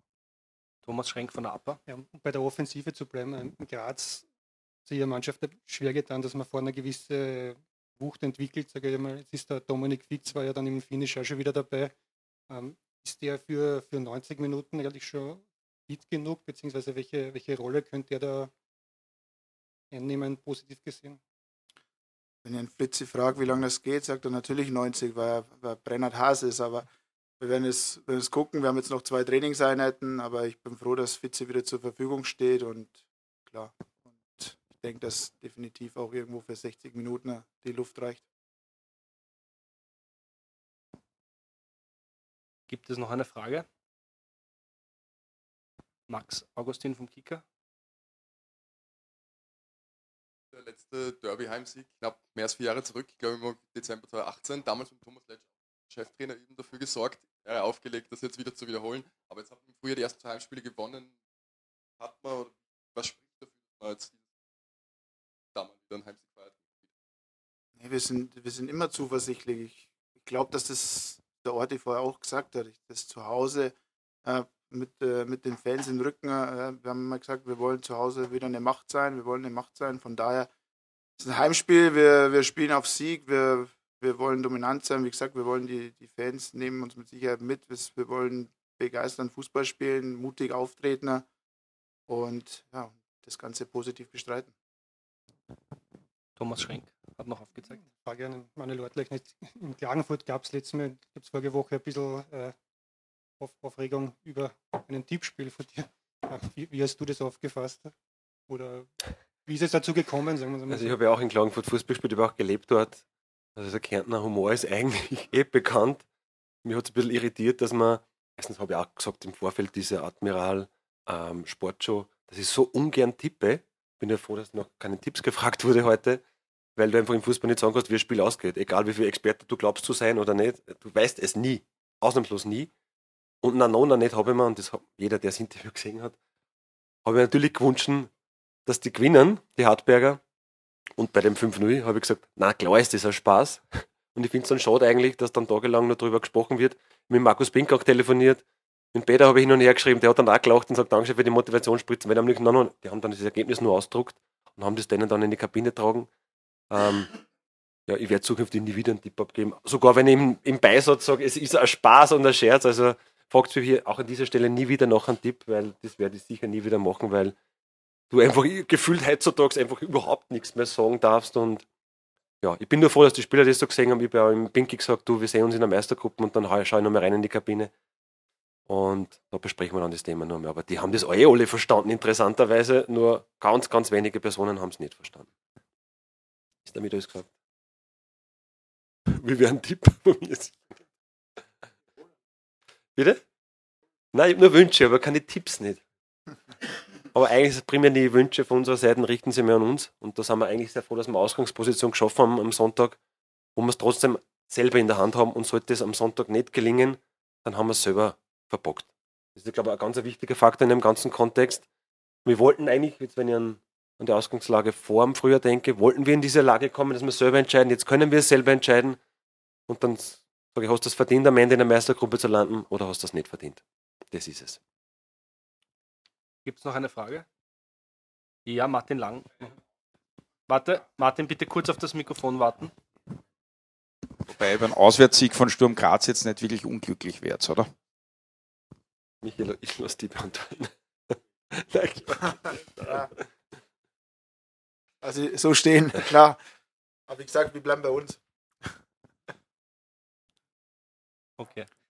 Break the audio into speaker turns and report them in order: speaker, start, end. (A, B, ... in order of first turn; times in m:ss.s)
0:00.8-0:01.8 A
0:01.8-0:04.3 B
0:04.8-0:11.9 B
0:12.5-0:18.5 B
0:19.9-0:21.2 B
0:22.4-0:26.9 C
0:27.4-0:38.2 C
0:42.7-0:43.6 A
0:46.1-0:47.4 A
0:50.5-1:01.2 D
1:02.0-1:04.2 D
1:05.5-1:06.9 D
1:07.8-1:20.5 C
1:21.2-1:31.2 C
1:32.1-1:34.5 C
1:36.4-1:37.8 A
1:38.0-1:42.5 B
1:43.4-1:47.9 B
1:48.5-1:51.0 B
1:50.7-1:53.0 E
1:53.6-1:56.0 E
1:56.6-2:06.2 E
2:06.8-2:12.7 E
2:13.4-2:16.2 E
2:17.0-2:18.1 E
2:18.6-2:20.2 E
2:21.0-2:28.4 E
2:28.9-2:36.1 E
2:36.7-2:37.1 E
2:37.9-2:47.3 E
2:48.1-2:51.6 E
2:52.4-2:57.7 E
2:58.7-3:05.3 E
3:06.6-3:07.3 E
3:09.1-3:10.6 E
3:12.9-3:13.2 E
3:14.1-3:15.8 E
3:17.1-3:23.0 E
3:23.6-3:31.6 E
3:32.2-3:39.0 E
3:39.7-3:44.6 E
3:46.4-3:47.2 A
3:48.4-3:49.6 A
3:50.5-3:52.7 A
3:54.2-3:57.7 F
3:59.2-4:03.0 E
4:02.8-4:03.1 C
4:05.0-4:06.4 C
4:07.1-4:08.2 C
4:11.4-4:11.7 A